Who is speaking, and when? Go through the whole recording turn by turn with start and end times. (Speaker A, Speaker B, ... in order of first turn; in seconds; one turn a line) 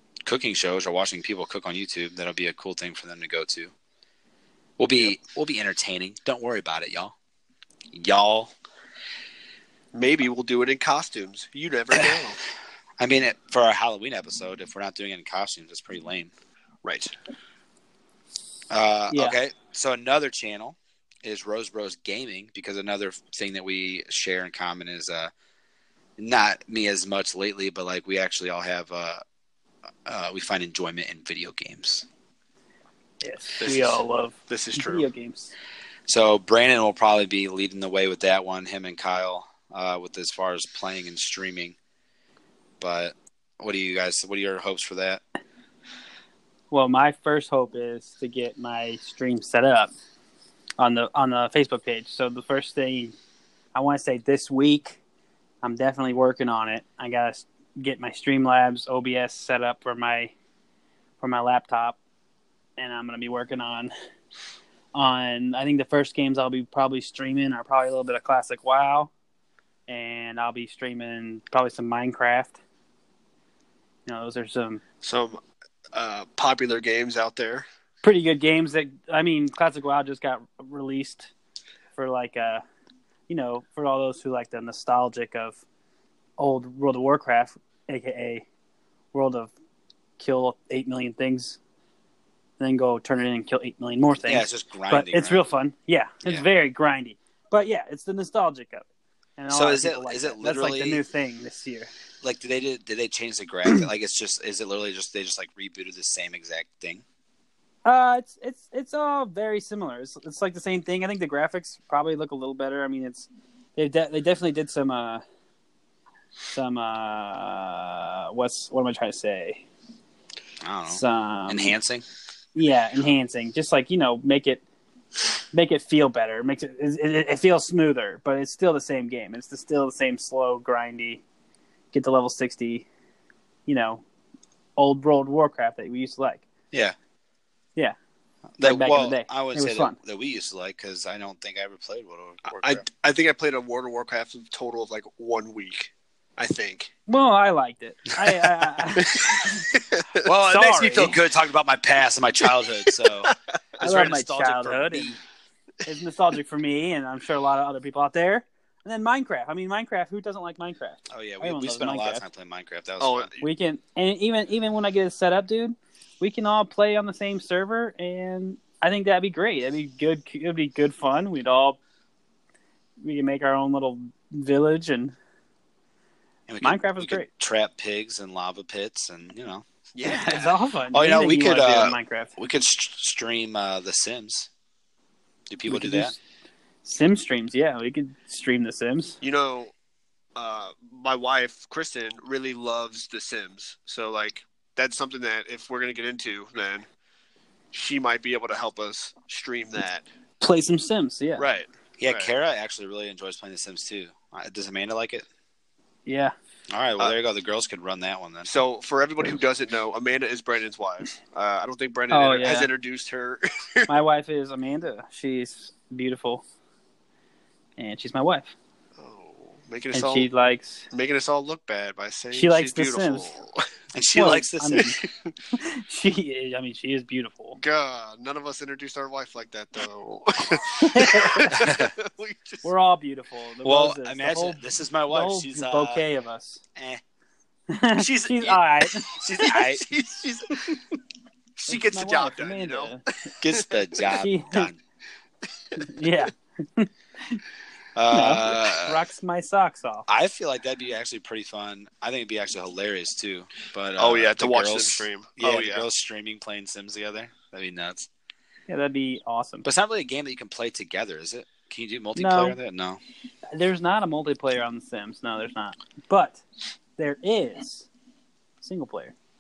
Speaker A: 0.2-3.7
Speaker A: 4.8-7.2
Speaker A: 7.9-8.5
Speaker B: 9.9-12.4
Speaker A: 11.9-12.2
Speaker A: 13.0-16.3
Speaker B: 16.8-17.1
Speaker A: 18.7-25.3
Speaker C: 19.1-19.4
Speaker A: 26.2-29.2
Speaker A: 30.1-32.1
Speaker C: 33.2-35.5
Speaker B: 33.6-35.1
Speaker A: 36.1-41.8
Speaker A: 42.8-45.2
Speaker C: 46.7-49.9
Speaker C: 50.8-53.1
Speaker C: 53.7-55.0
Speaker C: 55.6-60.3
Speaker C: 61.2-62.0
Speaker C: 62.8-63.9
Speaker C: 64.9-69.1
Speaker C: 69.9-72.6
Speaker C: 74.1-74.8
Speaker B: 75.0-75.4
Speaker B: 75.9-77.7
Speaker C: 78.0-81.3
Speaker C: 82.0-82.6
Speaker C: 83.3-85.6
Speaker C: 86.4-88.5
Speaker C: 89.1-89.5
Speaker C: 90.2-91.6
Speaker C: 92.6-98.8
Speaker A: 94.2-95.4
Speaker C: 99.4-101.9
Speaker A: 99.5-101.0
Speaker A: 102.2-107.0
Speaker C: 107.8-115.2
Speaker C: 116.5-119.7
Speaker A: 120.6-122.0
Speaker C: 120.9-121.8
Speaker C: 122.5-124.6
Speaker C: 125.5-131.2
Speaker C: 131.9-132.9
Speaker C: 133.7-134.0
Speaker C: 134.8-136.4
Speaker A: 138.6-142.9
Speaker C: 138.6-140.0
Speaker B: 142.5-146.9
Speaker C: 147.1-149.7
Speaker B: 149.0-150.2
Speaker A: 150.2-155.2
Speaker C: 150.4-151.2
Speaker C: 153.8-155.2
Speaker C: 155.8-162.2
Speaker A: 161.1-163.3
Speaker B: 163.0-163.4
Speaker C: 163.4-171.8
Speaker C: 173.0-175.2
Speaker A: 176.5-184.5
Speaker C: 176.6-177.3
Speaker B: 179.9-180.5
Speaker C: 180.1-182.3
Speaker A: 185.5-186.1
Speaker C: 185.7-186.2
Speaker C: 186.8-189.2
Speaker B: 189.2-189.7
Speaker B: 190.4-196.9
Speaker B: 197.7-200.1
Speaker C: 200.4-201.5
Speaker B: 201.4-202.3
Speaker A: 202.0-205.3
Speaker C: 206.1-206.3
Speaker A: 206.7-208.5
Speaker B: 208.5-213.9
Speaker C: 212.1-212.7
Speaker C: 213.9-216.4
Speaker C: 217.8-218.5
Speaker B: 219.0-220.3
Speaker C: 219.9-220.9
Speaker B: 220.9-223.7
Speaker C: 222.3-223.3
Speaker A: 223.9-224.9
Speaker C: 224.1-225.0
Speaker B: 224.8-225.3
Speaker C: 225.5-227.6
Speaker B: 227.6-232.7
Speaker C: 230.8-231.7
Speaker A: 231.5-231.9
Speaker C: 232.6-236.6
Speaker A: 233.6-236.1
Speaker A: 236.8-237.0
Speaker C: 237.7-239.2
Speaker A: 238.0-238.6
Speaker B: 239.1-240.8
Speaker A: 239.1-239.9
Speaker B: 241.6-242.9
Speaker C: 241.7-243.1
Speaker A: 243.4-244.8
Speaker B: 243.5-243.7
Speaker C: 244.1-244.7
Speaker C: 245.8-247.4
Speaker A: 248.0-249.0
Speaker C: 248.1-250.1
Speaker A: 250.1-258.1
Speaker B: 254.0-255.9
Speaker C: 258.7-259.7
Speaker A: 259.6-263.0
Speaker C: 262.2-262.6
Speaker C: 263.5-266.4
Speaker C: 267.0-267.9
Speaker C: 268.6-269.1